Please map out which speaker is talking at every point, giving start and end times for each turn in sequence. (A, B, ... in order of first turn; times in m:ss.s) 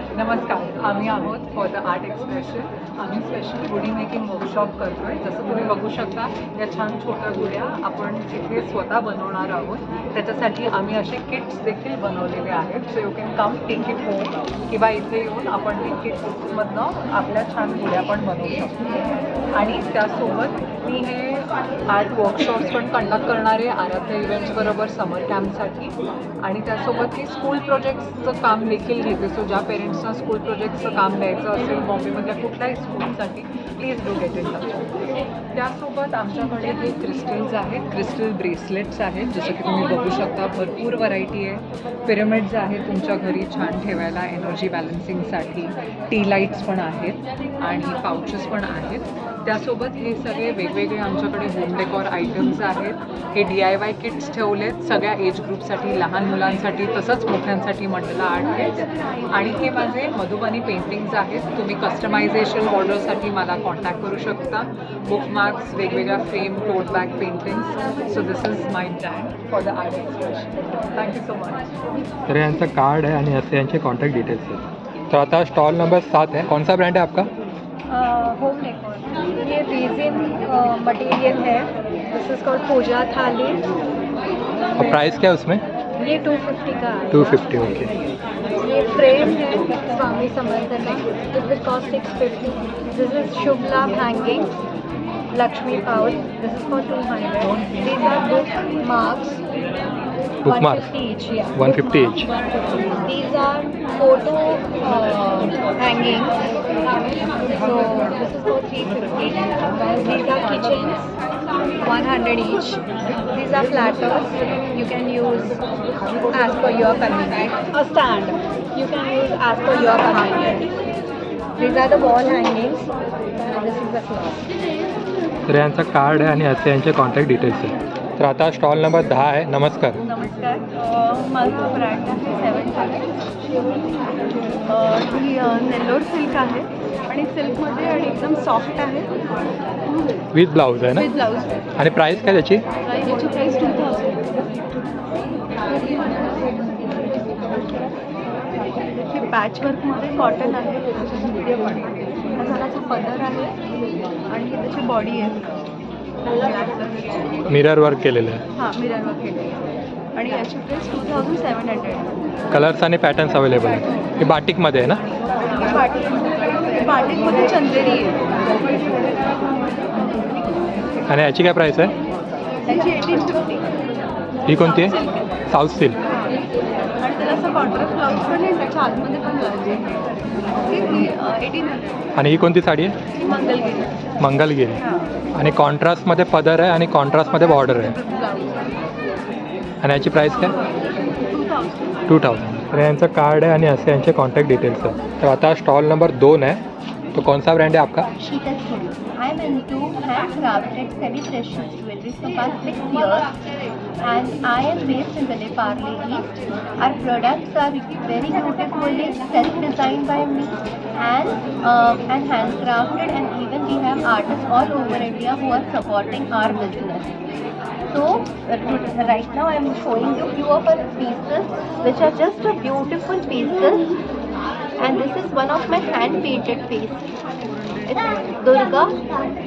0:00.1-0:34.9 A
0:35.5-1:11.6 A
1:12.3-1:17.3 B
1:17.9-1:23.6 C
1:24.8-1:25.6 B
1:26.0-1:27.4 C
1:27.1-1:27.9 B
1:28.6-1:34.5 C
1:35.3-1:39.4 C
1:40.4-1:40.9 B
1:40.5-1:42.2 C
1:41.5-1:42.3 B
1:42.9-1:46.3 C
1:47.0-1:51.1 C
1:51.8-1:52.8 C
1:53.3-1:55.6 C
1:56.3-2:00.6 C
1:59.7-2:00.7 D
2:01.6-2:02.9 C
2:03.4-2:04.4 C
2:05.5-2:10.0 B
2:10.0-2:13.1 D
2:14.7-2:19.1 D
2:20.3-2:21.1 B
2:21.0-2:21.4 D
2:21.8-2:22.6 B
2:23.0-2:24.4 D
2:29.0-2:31.8 D
2:32.4-2:33.5 D
2:34.3-2:35.4 D
2:36.3-2:37.5 D
2:37.5-2:38.4 B
2:38.6-2:39.6 D
2:40.1-2:42.1 D
2:42.5-2:45.0 B
2:45.6-2:46.2 D
2:46.7-2:48.2 D
2:51.1-2:51.9 B
2:52.8-2:53.3 D
2:54.5-2:54.9 B
2:55.5-2:56.0 B
2:57.0-2:59.8 D
3:00.6-3:01.8 D
3:02.1-3:03.0 B
3:04.2-3:04.8 B
3:05.3-3:07.9 B
3:07.8-3:08.2 D
3:09.8-3:10.5 B
3:11.3-3:11.9 D
3:12.1-3:16.6 B
3:17.1-3:18.1 B
3:18.2-3:23.3 E
3:24.0-3:37.1 E
3:37.9-3:43.9 E
3:44.8-3:47.0 E
3:47.9-3:49.0 E